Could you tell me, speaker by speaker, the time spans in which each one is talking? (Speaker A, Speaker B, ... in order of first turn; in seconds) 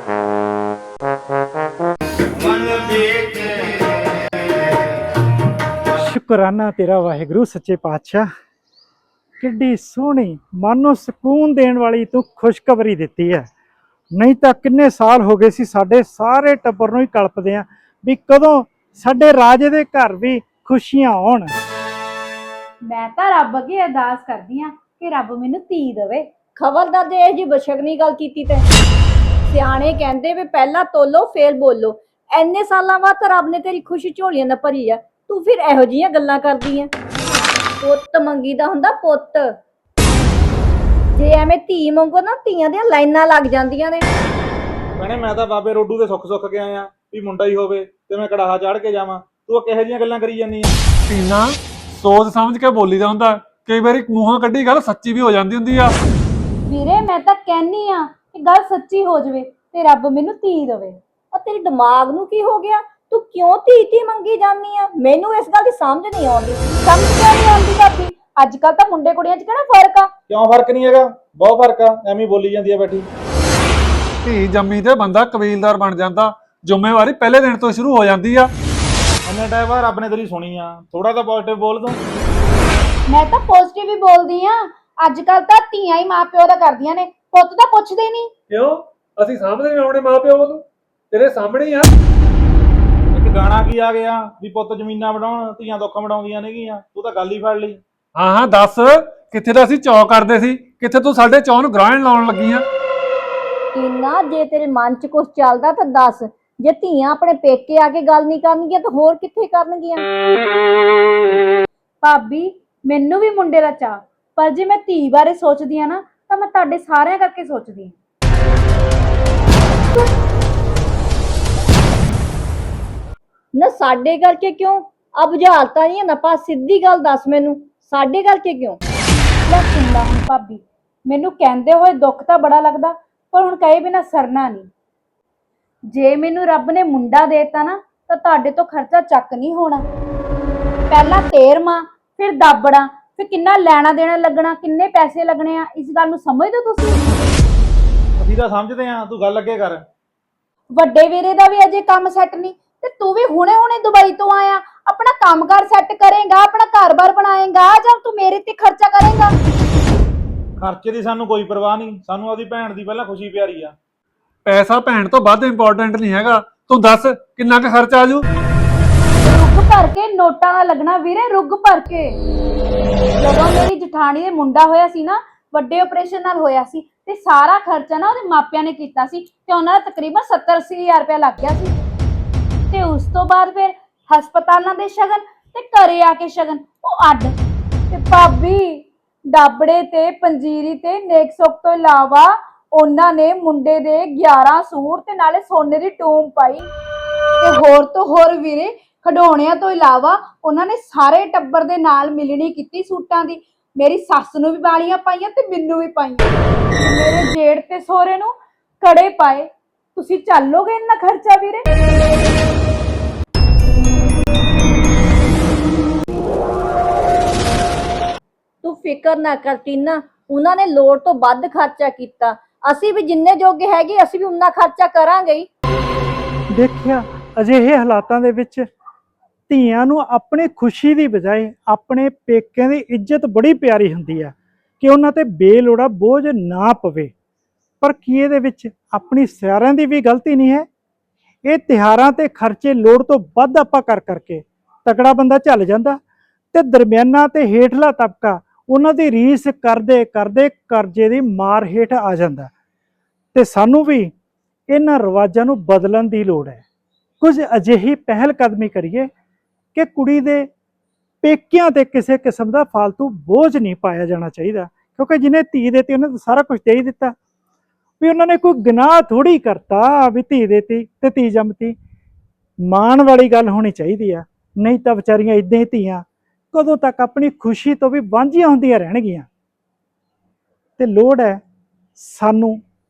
Speaker A: 2.6-3.1, 45.0-50.8, 70.3-73.1, 79.2-82.0, 93.1-97.8, 148.2-149.9, 160.6-163.8
Speaker B: 5.9-8.3, 9.4-13.5, 14.1-21.5, 226.5-228.7, 229.5-237.1, 237.8-240.7, 241.4-246.0, 246.5-252.5, 253.3-254.1, 254.7-256.6, 257.2-259.1, 259.7-260.5, 261.2-267.1, 268.0-271.8, 272.6-279.3, 280.8-281.4, 281.9-282.6
Speaker C: 22.9-26.3, 56.6-61.0, 66.8-70.1, 83.1-88.3, 112.0-117.9, 129.4-134.7, 135.9-139.8, 140.9-147.1, 150.7-159.3, 169.2-172.2, 173.2-181.7, 182.7-187.3, 187.9-196.7, 197.4-211.7
Speaker D: 26.6-28.6, 29.5-36.9, 37.8-39.5, 41.1-44.1, 61.3-66.6, 103.7-110.0, 123.5-128.8, 218.6-225.5
Speaker E: 51.1-55.9, 74.2-78.5, 88.5-91.9, 98.1-102.6, 164.4-168.2